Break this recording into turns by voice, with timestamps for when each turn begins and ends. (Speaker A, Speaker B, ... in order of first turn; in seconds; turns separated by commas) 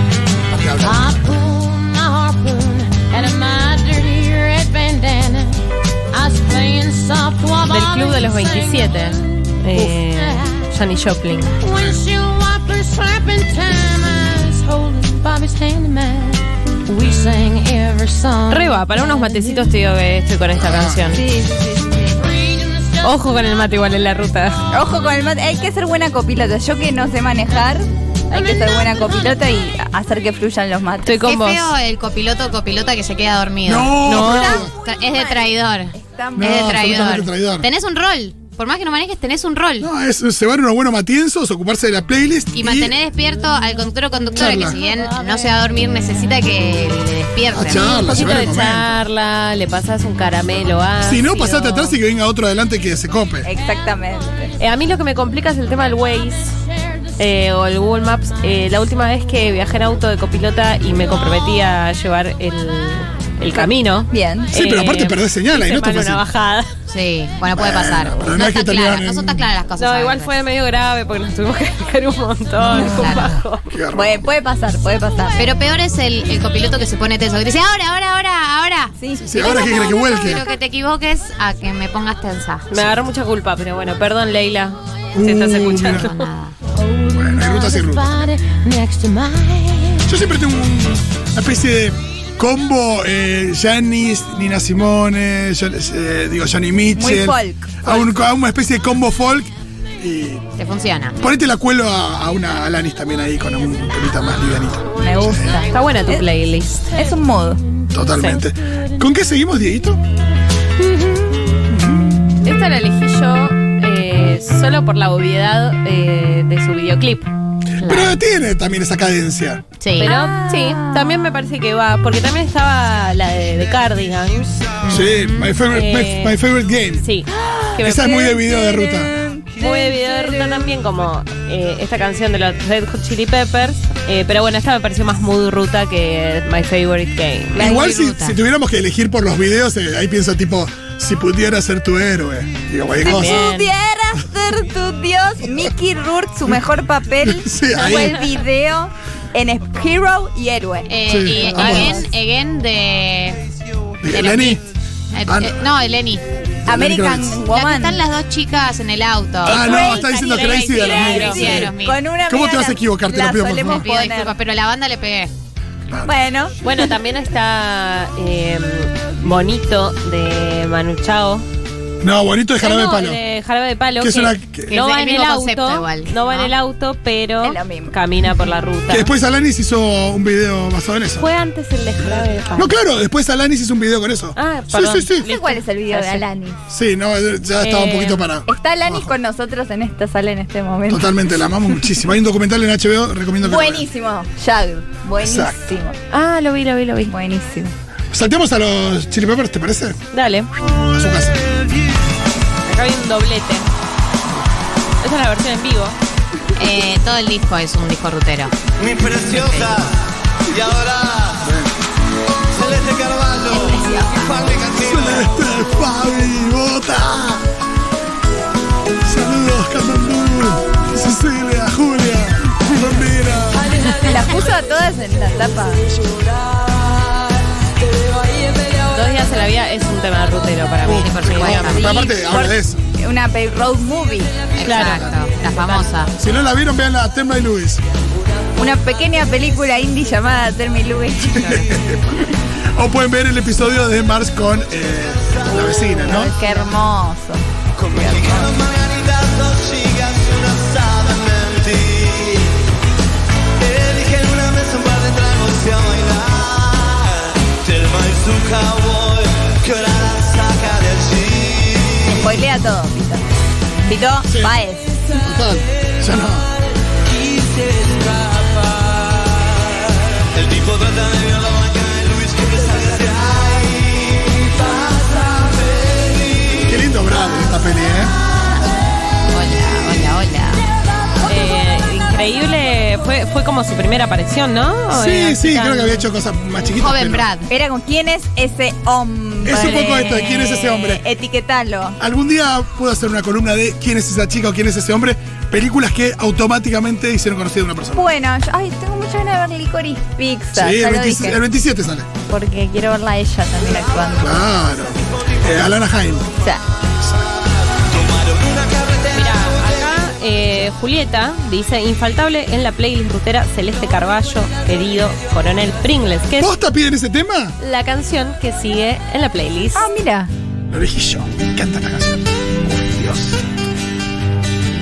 Speaker A: 0.5-1.4, Speaker B: 0.8-10.6, Speaker C: 7.7-11.6, Speaker B: 11.6-18.7, Speaker A: 11.7-12.0, Speaker C: 18.5-21.2, Speaker A: 20.6-21.0, Speaker D: 21.1-22.2, Speaker B: 22.4-23.1, Speaker C: 23.0-24.6, Speaker D: 24.7-31.3, Speaker C: 31.0-31.7, Speaker E: 31.3-39.9, Speaker A: 33.6-34.7, Speaker C: 34.1-34.6, Speaker D: 34.5-36.8, Speaker A: 36.4-37.7, Speaker A: 39.8-43.0, Speaker E: 42.5-48.0, Speaker A: 44.4-44.8, Speaker A: 47.5-48.9, Speaker C: 47.8-52.0, Speaker A: 51.0-53.5, Speaker D: 53.5-54.5, Speaker C: 54.6-56.6, Speaker C: 57.2-66.7, Speaker D: 63.5-64.5, Speaker A: 64.5-66.2, Speaker E: 66.9-70.3, Speaker A: 67.5-69.5, Speaker C: 69.8-73.7, Speaker D: 72.7-73.0, Speaker E: 72.7-73.3, Speaker A: 73.0-74.2, Speaker D: 73.9-75.3, Speaker E: 75.3-82.7, Speaker D: 79.0-79.8, Speaker A: 79.2-80.5, Speaker C: 82.7-86.2, Speaker A: 85.1-86.1, Speaker E: 85.9-86.5, Speaker B: 86.8-90.1, Speaker A: 87.1-88.2, Speaker A: 90.0-100.5, Speaker D: 97.0-98.1, Speaker E: 100.6-101.2, Speaker A: 101.2-105.6, Speaker D: 105.0-106.2, Speaker C: 105.5-106.9, Speaker D: 106.9-107.6, Speaker A: 107.9-110.0, Speaker C: 108.1-108.4, Speaker C: 112.4-117.3, Speaker A: 117.8-119.6, Speaker E: 117.8-118.2, Speaker E: 119.8-120.1, Speaker D: 120.0-121.1, Speaker C: 120.0-124.5, Speaker A: 124.9-127.0, Speaker C: 125.7-126.4, Speaker C: 127.0-128.4, Speaker A: 127.8-129.2, Speaker D: 128.5-130.3, Speaker C: 129.6-137.7, Speaker A: 137.5-143.4, Speaker E: 137.6-138.4, Speaker D: 143.0-152.0, Speaker C: 143.0-143.7, Speaker A: 147.2-148.2, Speaker E: 150.8-153.4, Speaker A: 151.1-152.0, Speaker C: 151.6-152.0, Speaker A: 154.0-154.6, Speaker E: 154.1-154.6, Speaker E: 155.1-156.2, Speaker A: 155.2-155.6, Speaker A: 156.7-157.4, Speaker D: 156.7-158.0, Speaker E: 157.5-162.0, Speaker A: 159.4-161.7, Speaker C: 159.5-161.6, Speaker D: 159.6-160.1, Speaker D: 161.2-164.3, Speaker A: 162.3-163.8, Speaker E: 163.7-165.3, Speaker D: 166.1-166.6, Speaker C: 166.6-171.4, Speaker A: 172.0-173.2, Speaker C: 172.6-179.1, Speaker A: 174.0-174.7, Speaker E: 174.7-176.5, Speaker D: 177.4-177.9, Speaker A: 178.9-181.3, Speaker C: 181.2-182.8, Speaker A: 182.5-185.3, Speaker C: 184.3-186.2, Speaker D: 185.2-186.6, Speaker A: 186.7-189.1, Speaker C: 187.6-188.2, Speaker D: 188.5-191.1, Speaker A: 190.9-193.8, Speaker D: 193.4-195.9, Speaker A: 195.2-195.7, Speaker C: 196.1-197.1, Speaker D: 197.1-197.7, Speaker A: 198.1-200.0, Speaker C: 200.1-200.5, Speaker A: 200.9-201.5, Speaker C: 202.6-203.7, Speaker C: 205.0-206.0, Speaker E: 206.5-209.9, Speaker F: 208.8-209.4, Speaker F: 210.5-211.4, Speaker A: 211.4-211.7, Speaker F: 212.5-213.7, Speaker D: 213.4-214.3, Speaker F: 214.2-214.8, Speaker A: 214.7-217.5, Speaker A: 219.0-223.8, Speaker D: 223.8-225.8, Speaker C: 228.9-231.7, Speaker A: 230.8-232.8, Speaker E: 231.0-231.9, Speaker D: 231.7-234.3, Speaker E: 234.5-236.1, Speaker C: 234.6-235.9, Speaker A: 236.2-237.8, Speaker D: 238.6-241.8, Speaker A: 241.3-246.3, Speaker D: 245.9-248.6, Speaker F: 248.6-252.5, Speaker F: 253.6-262.0, Speaker D: 262.1-263.2, Speaker D: 263.8-265.0, Speaker A: 264.3-264.5, Speaker A: 265.2-266.5, Speaker F: 267.4-269.3, Speaker F: 270.2-274.4, Speaker F: 275.0-276.5, Speaker A: 276.6-278.1, Speaker E: 279.3-280.7, Speaker C: 281.2-286.1, Speaker A: 284.9-287.3, Speaker E: 286.8-287.5, Speaker D: 287.5-290.1, Speaker A: 289.4-291.0, Speaker E: 289.8-290.9, Speaker D: 290.9-292.0, Speaker A: 292.0-298.1, Speaker D: 297.9-301.4, Speaker A: 300.5-302.1, Speaker D: 302.3-304.5, Speaker A: 304.2-306.3, Speaker F: 307.9-309.1, Speaker C: 309.1-316.5, Speaker A: 316.4-317.5, Speaker C: 317.6-319.9, Speaker D: 319.7-320.3, Speaker A: 320.7-323.4